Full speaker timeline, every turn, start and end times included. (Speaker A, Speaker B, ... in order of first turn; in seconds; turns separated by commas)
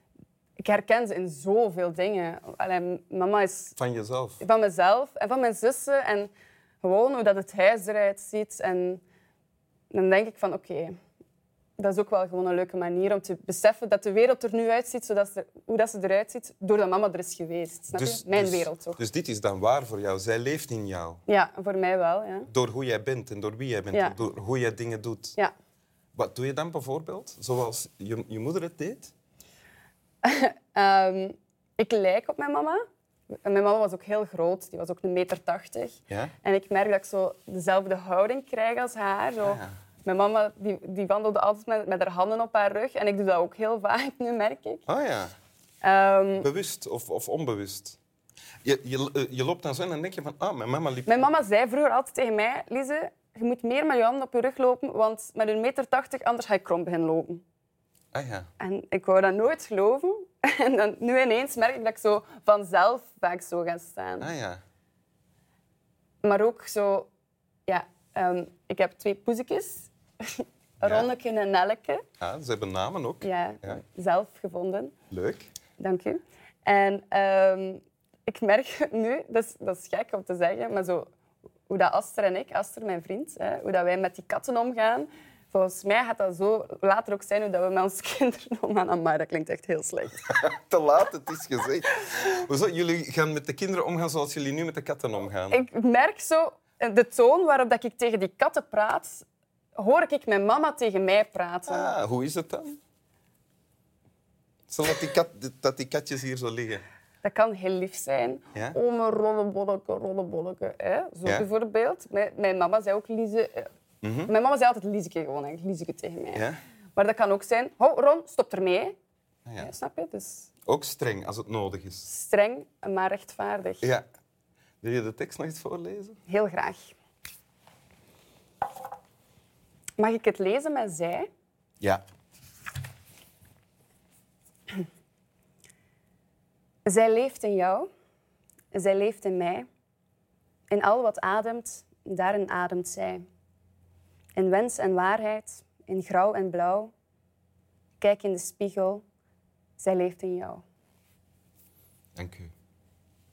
Speaker A: 0.6-3.8, Speaker B: 3.8-4.4, Speaker A: 4.4-9.0, Speaker A: 9.9-10.9, Speaker A: 11.8-19.0, Speaker B: 17.9-21.2, Speaker A: 21.3-22.5, Speaker B: 22.5-25.4, Speaker A: 23.9-24.2, Speaker B: 26.1-29.1, Speaker A: 30.2-32.8, Speaker A: 33.4-44.8, Speaker B: 39.4-39.7, Speaker B: 44.9-45.3, Speaker A: 45.8-46.5, Speaker B: 46.4-48.0, Speaker B: 48.6-51.3, Speaker A: 51.1-57.4, Speaker B: 58.1-58.5, Speaker A: 58.6-64.3, Speaker B: 64.2-64.6, Speaker A: 66.2-67.1, Speaker A: 67.7-72.0, Speaker B: 70.8-71.1, Speaker B: 72.2-73.8, Speaker A: 73.2-74.9, Speaker B: 75.1-75.5, Speaker A: 75.8-81.0, Speaker A: 81.7-90.2, Speaker B: 90.2-95.6, Speaker A: 95.5-101.9, Speaker B: 101.7-102.8, Speaker B: 104.7-106.8, Speaker A: 107.2-113.7, Speaker B: 114.0-114.3, Speaker A: 114.2-116.4, Speaker A: 117.0-118.9, Speaker A: 119.6-120.5, Speaker B: 120.7-122.1, Speaker A: 122.1-123.9, Speaker B: 124.8-126.2, Speaker A: 126.3-126.9, Speaker A: 130.0-131.3, Speaker A: 136.8-137.9, Speaker A: 138.7-139.7, Speaker A: 140.7-143.2, Speaker A: 144.3-146.9, Speaker A: 148.0-149.0, Speaker A: 149.8-150.6, Speaker B: 152.2-152.5